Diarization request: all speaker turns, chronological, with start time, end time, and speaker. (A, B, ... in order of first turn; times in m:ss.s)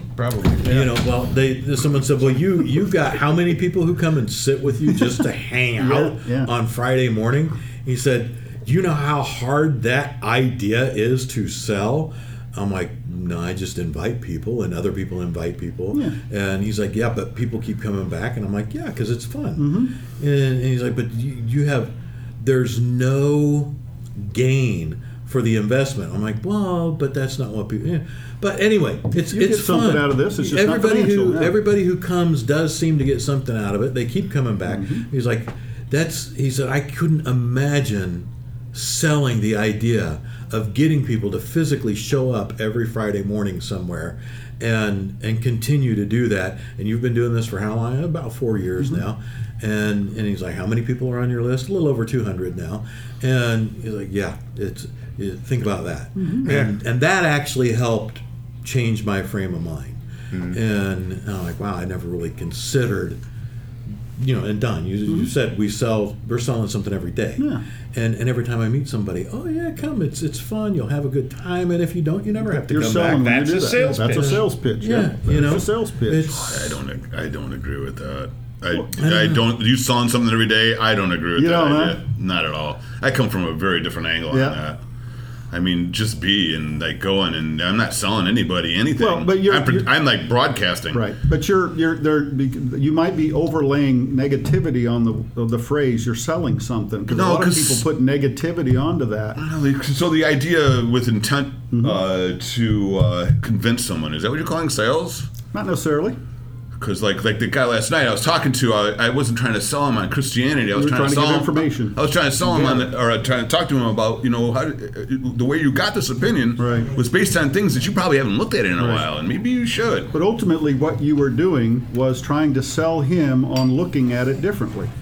0:00.2-0:00.6 A
0:00.6-1:03.2 B
0:00.6-0:00.9 C
0:05.8-0:06.5 C
0:19.6-0:19.9 C
0:29.3-0:31.6 C
0:34.7-0:35.0 C
0:56.2-0:56.5 C
0:56.4-0:56.7 A
1:04.2-1:13.1 B
1:12.5-1:14.5 A
1:12.7-1:16.3 C
1:14.1-1:16.8 B
1:16.4-1:24.8 D
1:18.9-1:19.4 B
1:21.4-1:22.0 C
1:24.3-1:24.6 C
1:25.5-1:31.0 D
1:29.0-1:29.9 C
1:30.9-1:39.4 C
1:37.1-1:37.8 D
1:39.4-1:45.3 D
1:41.7-1:42.0 C
1:45.5-1:46.2 C
1:46.8-2:00.1 D
1:50.7-1:52.8 C
1:56.6-1:56.9 C
1:58.8-1:59.0 C
2:00.1-2:04.9 C